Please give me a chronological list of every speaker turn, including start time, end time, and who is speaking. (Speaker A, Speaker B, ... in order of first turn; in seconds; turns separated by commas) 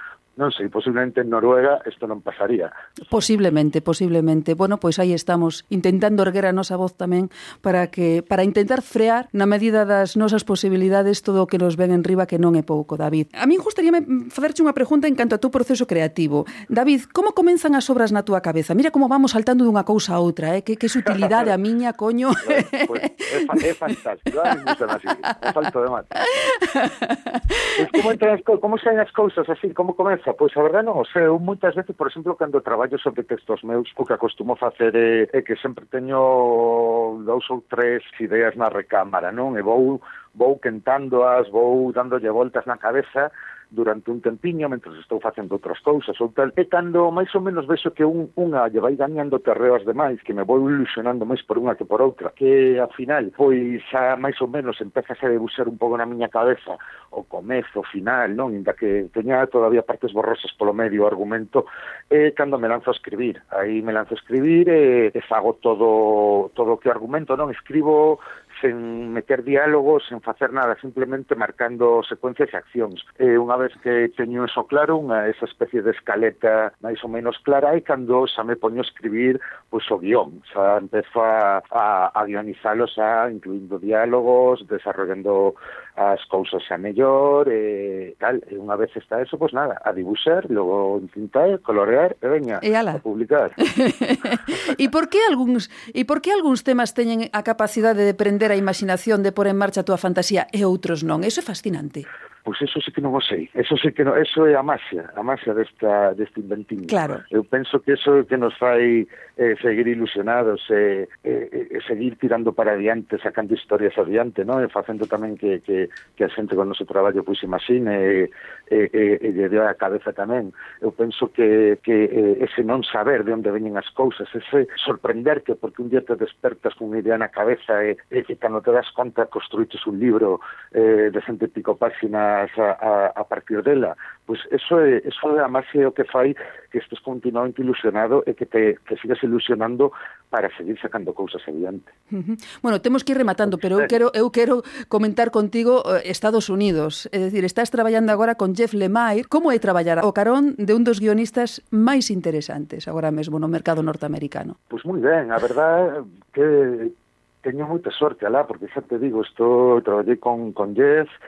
Speaker A: 0.4-2.7, Speaker B: 3.1-23.2, Speaker A: 21.1-21.5, Speaker A: 22.4-26.2, Speaker B: 26.5-27.7, Speaker A: 27.8-93.6, Speaker B: 92.6-93.0, Speaker B: 93.7-102.1, Speaker A: 102.5-141.9, Speaker B: 106.9-107.2, Speaker B: 142.1-154.6, Speaker A: 154.7-156.9, Speaker A: 157.4-161.1